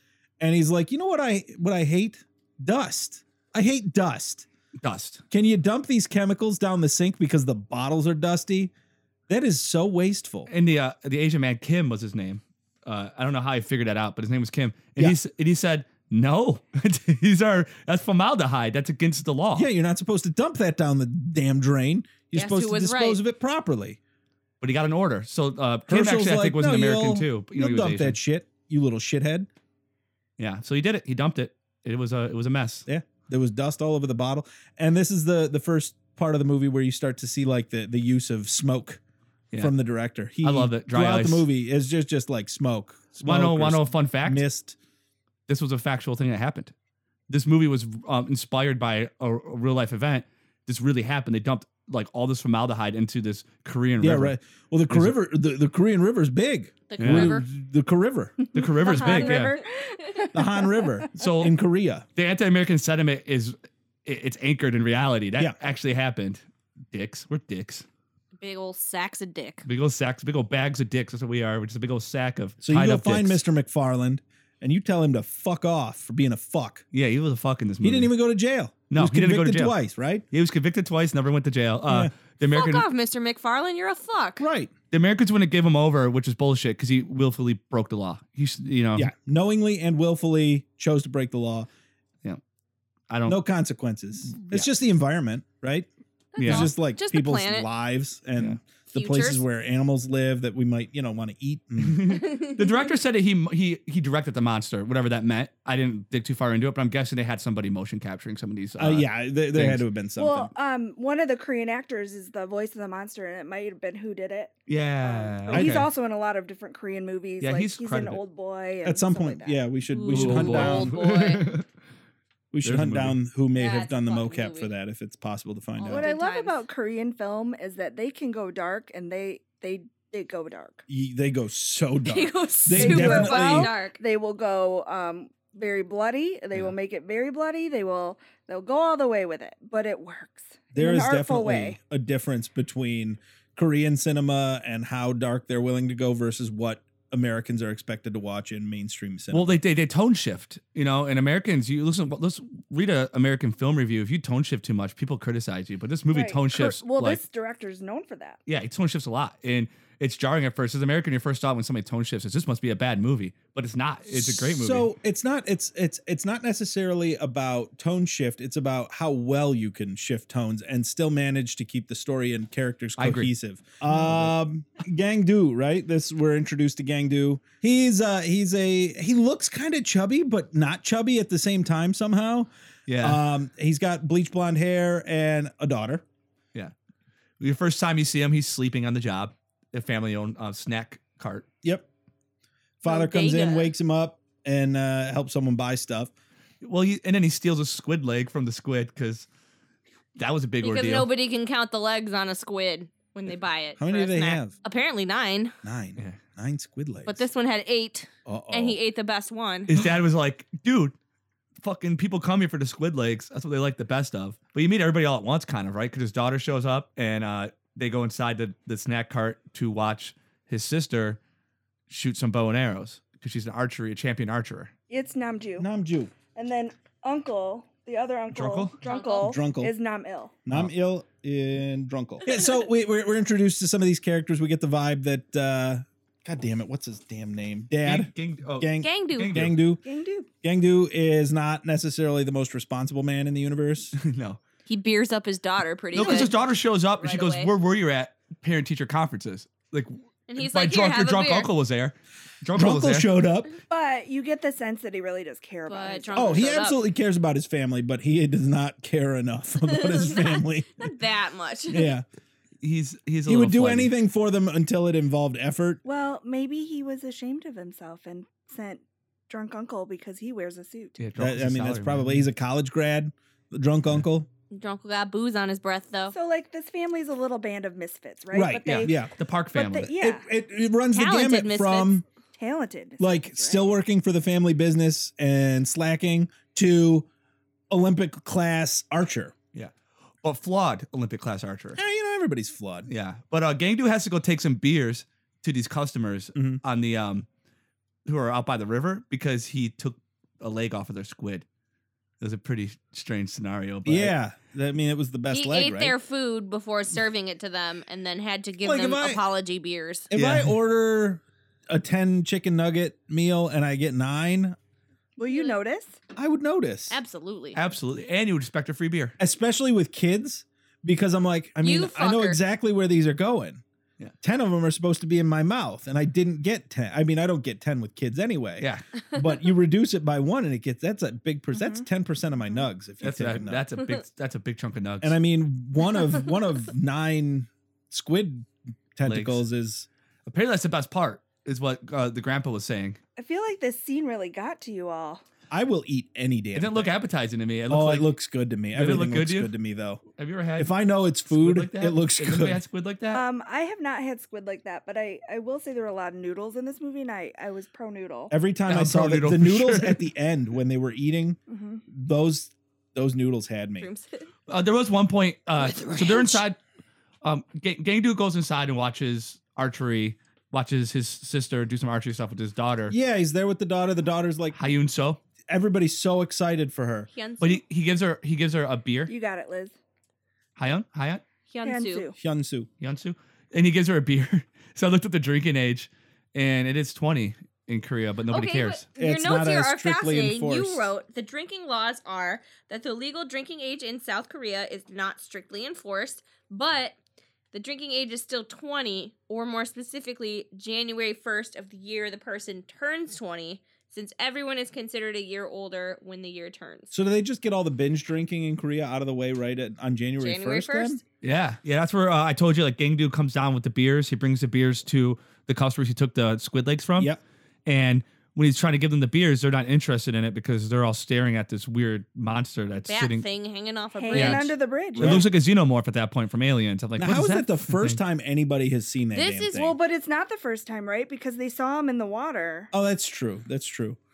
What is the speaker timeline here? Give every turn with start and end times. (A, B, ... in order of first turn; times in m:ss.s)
0:00.4-0:04.5 A
0:04.8-0:05.2 B
0:05.3-0:08.7 A
0:09.3-0:10.5 A
0:10.5-0:19.7 B
0:19.5-0:24.0 A
0:22.3-0:23.2 C
0:24.6-0:28.2 B
0:25.9-0:29.5 A
0:30.4-0:32.9 B
0:32.9-0:39.0 A
0:39.6-0:44.8 A
0:40.4-0:41.5 B
0:43.2-0:44.4 B
0:45.5-0:46.7 B
0:47.3-0:54.4 B
0:54.0-0:59.0 A
0:54.9-0:55.2 B
0:56.9-0:57.4 C
0:57.0-0:57.4 B
0:58.5-0:59.6 B
0:58.6-1:01.1 D
0:59.0-0:59.5 C
1:00.3-1:02.0 A
1:01.2-1:01.6 B
1:02.1-1:07.8 B
1:08.4-1:09.6 C
1:09.6-1:13.4 B
1:12.6-1:16.8 A
1:16.9-1:18.1 B
1:17.8-1:20.2 A
1:18.9-1:19.8 B
1:20.3-1:22.8 B
1:21.9-1:22.1 A
1:22.5-1:24.4 C
1:24.4-1:24.7 A
1:24.9-1:29.1 B
1:29.0-1:31.7 A
1:33.1-1:33.4 B
1:33.3-1:35.9 A
1:34.3-1:34.7 B
1:36.3-1:37.7 C
1:36.4-1:36.7 B
1:36.4-1:42.2 A
1:38.9-1:39.4 C
1:41.8-1:49.8 B
1:48.8-1:50.5 A
1:50.2-1:59.6 D
1:54.7-1:55.9 B
1:55.5-1:55.8 A
1:57.4-1:58.2 B
1:58.8-2:00.9 A
1:59.9-2:01.5 C
2:00.1-2:01.7 B
2:02.5-2:06.1 A
2:02.6-2:03.2 B
2:03.6-2:04.7 C
2:05.8-2:06.6 C
2:05.9-2:10.8 D
2:10.9-2:13.7 A
2:12.0-2:14.0 C
2:12.7-2:21.8 D
2:20.7-2:29.6 A
2:29.3-2:37.2 B
2:36.1-2:38.4 D
2:38.5-2:44.9 B
2:44.1-3:06.0 A
2:53.0-2:53.3 B
2:53.8-2:54.3 B
3:02.9-3:03.2 B
3:07.4-3:11.5 B
3:12.8-3:16.1 A
3:12.8-3:13.7 C
3:16.6-3:19.2 B
3:20.2-3:21.1 B
3:20.6-3:25.5 C
3:23.8-3:24.5 A
3:25.6-3:27.2 A
3:27.0-3:29.7 C
3:28.2-3:28.8 A
3:29.7-3:30.9 B
3:31.6-3:41.2 B
3:41.9-3:44.7 B
3:44.9-3:45.7 D
3:45.6-3:46.1 A
3:46.3-3:50.4 D
3:48.3-3:48.7 B
3:48.8-3:49.3 C
3:49.2-3:49.7 A
3:50.4-3:59.8 A
3:57.8-3:59.6 B
3:58.8-3:59.5 C
3:59.8-4:00.3 D
4:00.4-4:03.9 A
4:03.9-4:04.4 B
4:04.7-4:06.3 C
4:05.9-4:13.1 B
4:05.9-4:06.3 A
4:07.0-4:07.5 C
4:10.3-4:11.5 C
4:12.5-4:13.5 A
4:13.7-4:16.6 D
4:15.7-4:16.8 C
4:16.1-4:20.9 A
4:19.7-4:21.9 C
4:21.7-4:22.0 A
4:22.6-4:23.9 B
4:23.3-4:25.8 A
4:25.8-4:31.0 D
4:31.0-4:32.3 B
4:31.2-4:34.3 A
4:34.5-4:36.1 C
4:36.1-4:39.0 D
4:38.3-4:39.1 A
4:38.6-4:39.9 B
4:39.5-4:40.2 D
4:39.8-4:42.0 A
4:40.9-4:41.9 C
4:42.4-4:43.7 D
4:43.0-4:47.1 A
4:47.7-4:49.3 A
4:49.5-4:51.8 B
4:51.8-4:52.9 A
4:52.9-4:57.2 B
4:56.3-4:56.6 A
4:58.0-5:01.4 B
5:02.2-5:04.1 B
5:03.8-5:06.0 A
5:05.3-5:10.1 C
5:08.6-5:09.2 A
5:10.1-5:14.6 A
5:10.1-5:10.5 B
5:15.2-5:16.0 D
5:15.3-5:15.6 C
5:16.1-5:17.0 A
5:16.9-5:17.6 C
5:17.5-5:19.2 B
5:19.2-5:23.6 A
5:21.6-5:22.4 C
5:24.2-5:33.7 A
5:28.6-5:28.8 B
5:31.5-5:31.8 D
5:33.0-5:35.2 B
5:35.0-5:39.9 A
5:39.0-5:39.4 B
5:40.3-5:43.0 B
5:43.2-5:45.2 D
5:45.5-5:47.0 A
5:46.5-5:48.1 B
5:47.7-5:50.0 A
5:48.7-5:49.5 B
5:50.2-5:53.2 B
5:50.6-5:52.6 A
5:53.1-5:58.3 D
5:58.3-6:01.4 A
5:58.7-6:00.1 B
6:01.5-6:01.8 D
6:01.9-6:03.9 A
6:03.8-6:04.3 C
6:04.5-6:06.6 B
6:05.6-6:06.4 C
6:07.2-6:13.0 B
6:12.9-6:14.6 A
6:14.5-6:15.2 B
6:15.5-6:17.1 A
6:17.1-6:17.6 C
6:17.4-6:19.1 B
6:19.1-6:19.8 D
6:20.6-6:21.2 B
6:21.5-6:22.1 C
6:21.6-6:22.2 D
6:22.2-6:22.7 A
6:22.8-6:28.8 B
6:28.3-6:37.0 C
6:29.0-6:30.9 A
6:37.5-6:46.9 C
6:46.9-6:51.0 A
6:50.2-6:51.0 C
6:51.2-6:57.1 B
6:57.6-7:03.2 B
7:02.9-7:04.5 C
7:04.0-7:05.2 D
7:04.1-7:08.0 B
7:05.0-7:05.3 A
7:07.0-7:09.7 A
7:09.1-7:09.6 C
7:09.6-7:12.7 D
7:12.7-7:14.0 A